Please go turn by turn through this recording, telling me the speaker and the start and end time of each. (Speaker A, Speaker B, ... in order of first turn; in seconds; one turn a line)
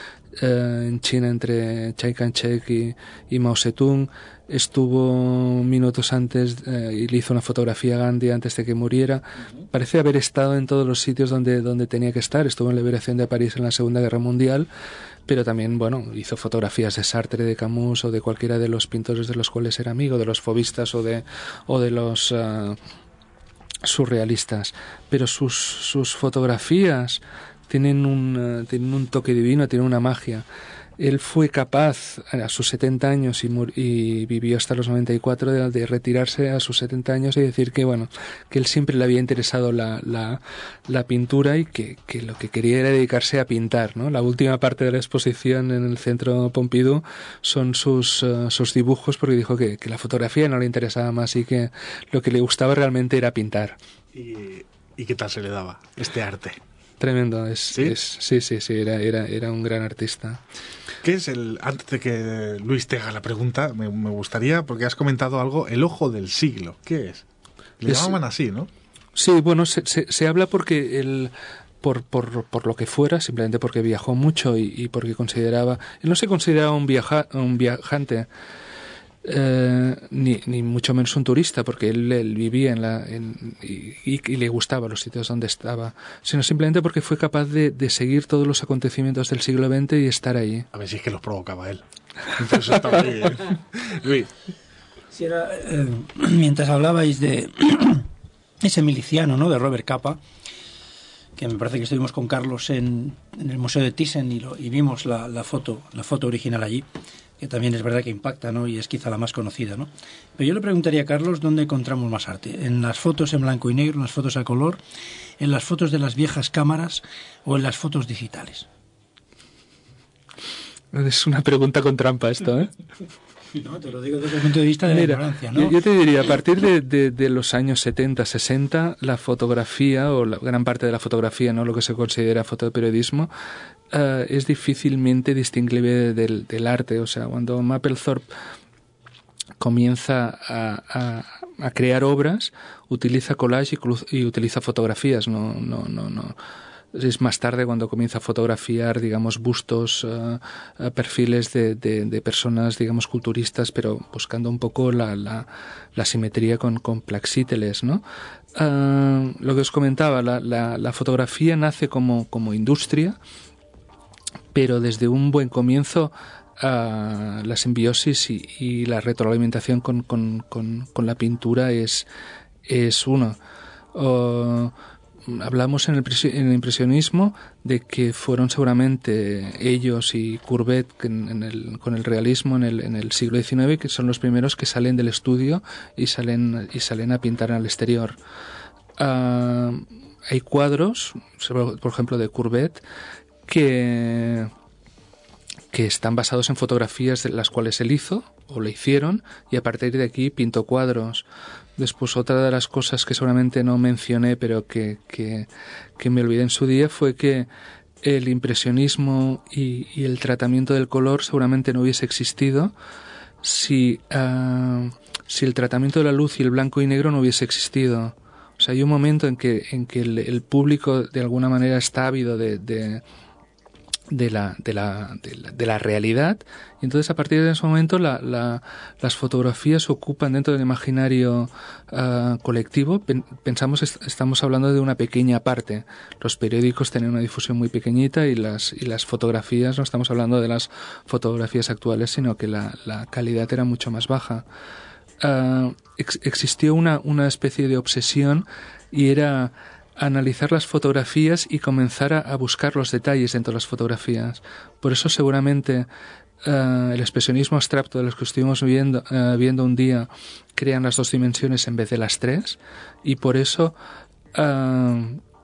Speaker A: 0.4-14.7
Speaker A: 15.3-22.8
Speaker A: 23.8-30.4
Speaker A: 31.0-53.8
Speaker B: 54.1-56.6
Speaker A: 57.0-60.4
Speaker B: 57.7-58.0
Speaker B: 61.0-67.2
Speaker B: 67.8-68.7
Speaker A: 67.8-68.2
Speaker A: 69.2-78.3
Speaker A: 79.2-90.7
Speaker B: 90.7-91.8
Speaker B: 92.3-94.3
Speaker C: 95.1-98.0
Speaker C: 98.6-100.2
Speaker C: 101.4-106.8
Speaker C: 107.4-114.8
Speaker C: 115.4-118.7
Speaker A: 120.9-122.7
Speaker C: 123.6-125.8
Speaker A: 124.9-133.3
Speaker A: 133.9-138.2
Speaker A: 139.6-146.3
Speaker A: 146.9-158.0
Speaker A: 158.5-163.2
Speaker A: 164.5-172.1
Speaker A: 172.7-173.4
Speaker A: 173.9-174.7
Speaker A: 175.3-188.2
Speaker A: 189.0-192.8
Speaker A: 193.5-194.5
Speaker A: 195.7-201.2
Speaker A: 201.8-205.5
Speaker A: 206.0-207.5
Speaker A: 208.0-212.7
Speaker A: 213.4-223.0
Speaker A: 224.1-244.4
Speaker A: 245.2-255.9
Speaker A: 256.4-263.7
Speaker A: 264.3-265.2